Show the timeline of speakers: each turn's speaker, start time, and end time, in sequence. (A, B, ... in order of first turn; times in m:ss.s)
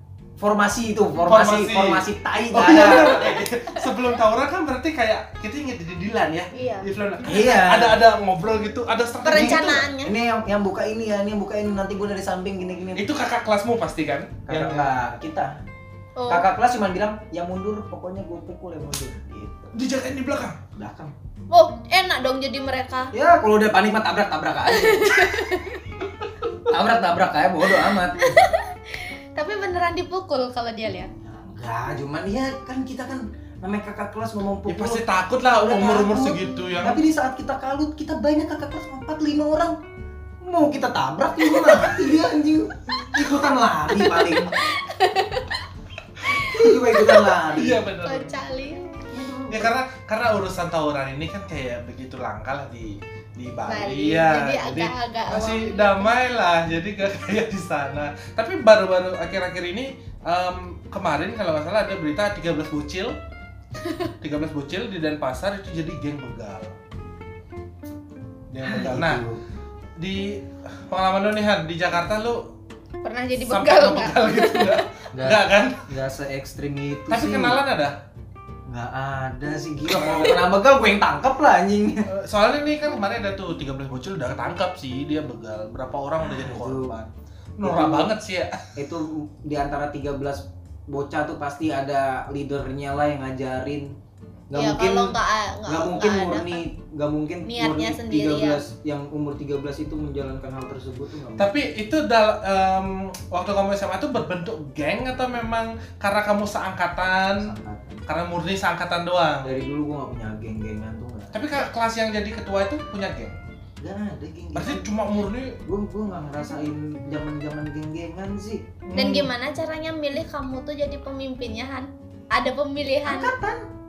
0:00.4-0:03.4 A
0:01.2-0:09.9 B
0:03.0-0:03.7 C
0:06.5-0:06.9 C
0:07.2-0:08.0 A
0:09.2-0:10.1 C
0:09.2-0:13.1 A
0:12.9-0:15.0 B
0:14.5-0:15.6 A
0:16.2-0:16.5 C
0:16.3-0:19.7 A
0:19.7-0:20.6 B
0:20.7-0:21.1 A
0:21.5-0:23.1 C
0:23.1-0:25.4 A
0:24.7-0:25.8 C
0:26.7-0:28.4 A
0:27.7-0:31.1 C
0:31.2-0:39.8 A
0:34.7-0:37.0 B
0:40.4-0:44.5 A
0:41.5-0:41.9 C
0:43.9-0:45.6 C
0:46.2-0:47.4 C
0:46.4-0:47.9 A
0:47.5-0:48.3 B
0:48.0-0:49.0 C
0:49.1-0:49.7 A
0:49.5-1:03.2 B
0:53.7-0:56.1 C
1:03.8-1:04.1 C
1:04.2-1:06.7 B
1:08.5-1:09.2 B
1:08.6-1:09.4 A
1:10.0-1:12.4 B
1:13.0-1:14.8 C
1:13.4-1:15.9 B
1:15.1-1:17.6 A
1:17.1-1:18.0 B
1:18.7-1:22.1 A
1:19.9-1:20.4 B
1:22.0-1:28.7 B
1:26.2-1:27.0 A
1:27.6-1:28.1 A
1:28.8-1:33.9 A
1:34.5-1:41.5 A
1:34.5-1:36.6 C
1:37.4-1:38.6 C
1:41.4-1:47.5 B
1:47.4-1:48.0 A
1:48.1-1:49.6 B
1:49.4-1:51.7 A
1:51.3-1:53.4 B
1:53.8-1:54.9 A
1:54.6-1:55.6 B
1:55.7-1:58.8 A
1:58.9-1:59.3 B
1:58.9-2:03.3 C
2:03.0-2:03.7 A